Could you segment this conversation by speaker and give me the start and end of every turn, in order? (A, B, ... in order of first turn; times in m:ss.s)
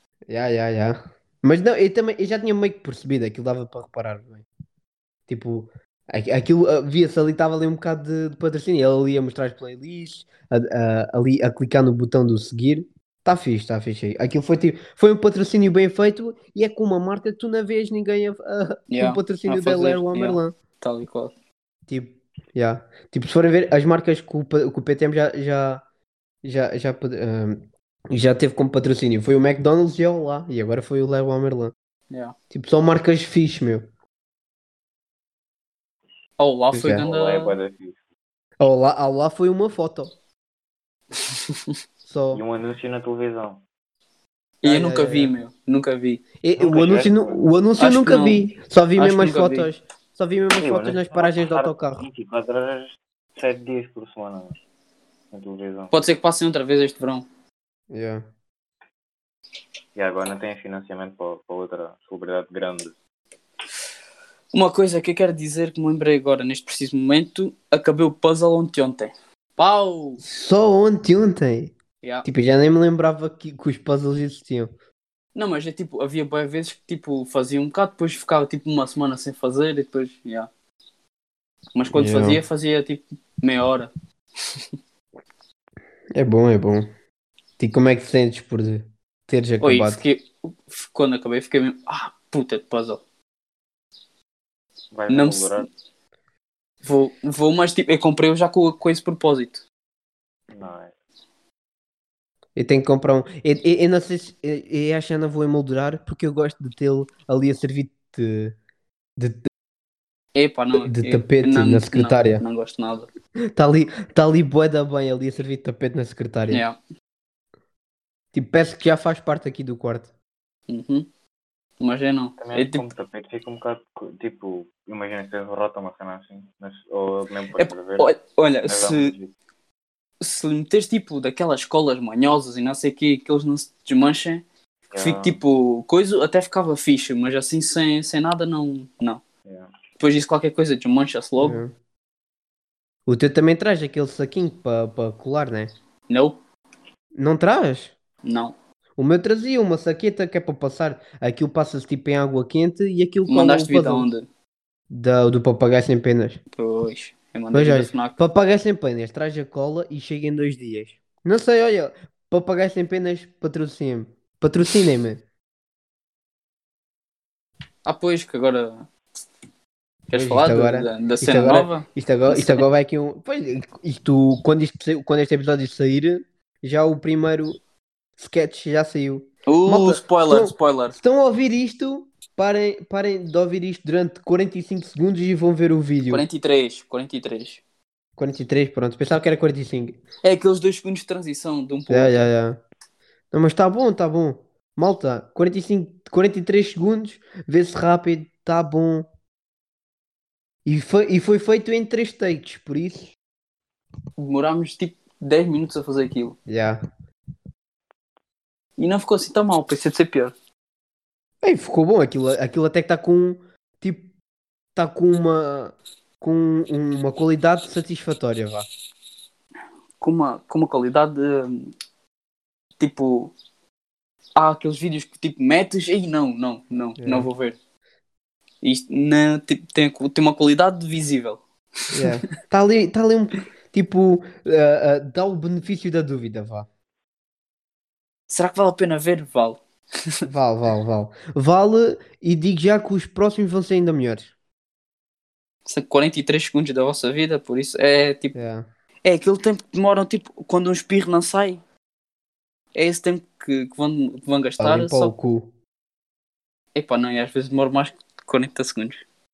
0:00.3-0:04.4 A
0:05.3-0:20.5 A
0:18.9-0:21.3 B
0:21.9-0:25.8 A
0:26.4-0:31.7 A
0:32.1-0:32.3 B
0:32.5-0:33.8 A
0:36.4-0:37.6 B
0:36.7-0:37.0 A
0:36.8-0:38.0 C
0:38.6-0:40.1 A
0:41.3-0:41.7 B
0:42.0-0:42.4 A
0:42.3-0:43.6 C
0:44.6-0:46.2 B
0:44.6-0:45.3 A
0:46.4-0:52.0 A
0:46.6-0:47.4 C
0:47.8-0:48.4 B
0:49.0-0:49.7 B
0:50.6-0:54.6 C
0:55.3-0:56.0 C
0:55.9-0:57.2 B
0:57.9-0:58.2 A
1:00.0-1:02.9 C
1:04.5-1:10.2 B
1:10.2-1:11.7 A
1:12.2-1:14.7 A
1:15.3-1:20.5 B
1:21.7-1:23.9 B
1:21.9-1:22.4 A
1:26.1-1:26.9 A
1:27.6-1:30.0 A
1:29.6-1:33.0 B
1:34.9-1:35.7 C
1:35.1-1:35.6 B
1:36.8-1:39.6 B
1:40.5-1:40.9 C
1:42.6-1:48.6 A
1:49.2-1:49.5 A
1:50.3-1:53.1 B
1:50.7-1:52.4 A
1:53.5-1:56.6 A
1:56.5-1:56.8 B
1:58.3-2:00.1 A
2:00.7-2:01.1 B
2:01.8-2:02.9 B
2:02.4-2:08.1 C
2:07.6-2:09.1 B
2:08.6-2:09.3 C
2:10.2-2:14.4 B
2:14.9-2:15.4 C
2:14.9-2:19.2 B
2:19.4-2:19.7 C
2:20.0-2:21.6 B
2:21.4-2:21.7 A
2:23.1-2:25.7 A
2:26.1-2:26.4 B
2:27.1-2:27.9 A
2:28.2-2:28.5 B
2:29.0-2:34.1 A
2:33.3-2:34.2 B
2:34.9-2:36.4 A
2:36.6-2:38.2 B
2:37.5-2:45.2 A
2:47.8-2:48.9 B
2:50.1-2:52.6 B
2:50.1-2:57.6 A
2:58.2-3:06.2 A
2:59.5-3:01.0 B
3:06.1-3:07.6 B
3:08.2-3:10.0 A
3:10.2-3:12.2 B
3:11.9-3:12.6 A
3:13.3-3:19.1 A
3:20.6-3:23.1 A
3:24.2-3:26.4 B
3:26.4-3:26.8 A
3:28.8-3:30.3 B
3:31.4-3:34.1 A
3:34.8-3:38.7 A
3:40.0-3:41.7 B
3:42.8-3:43.3 B
3:44.4-3:47.6 B
3:47.0-3:47.3 A
3:48.6-3:51.4 B
3:51.9-3:56.7 A
3:58.3-3:59.6 B
4:00.2-4:04.3 A
4:05.6-4:08.3 B
4:08.3-4:08.6 A
4:09.0-4:11.6 B
4:12.7-4:15.1 B
4:14.6-4:15.5 A
4:16.7-4:19.0 B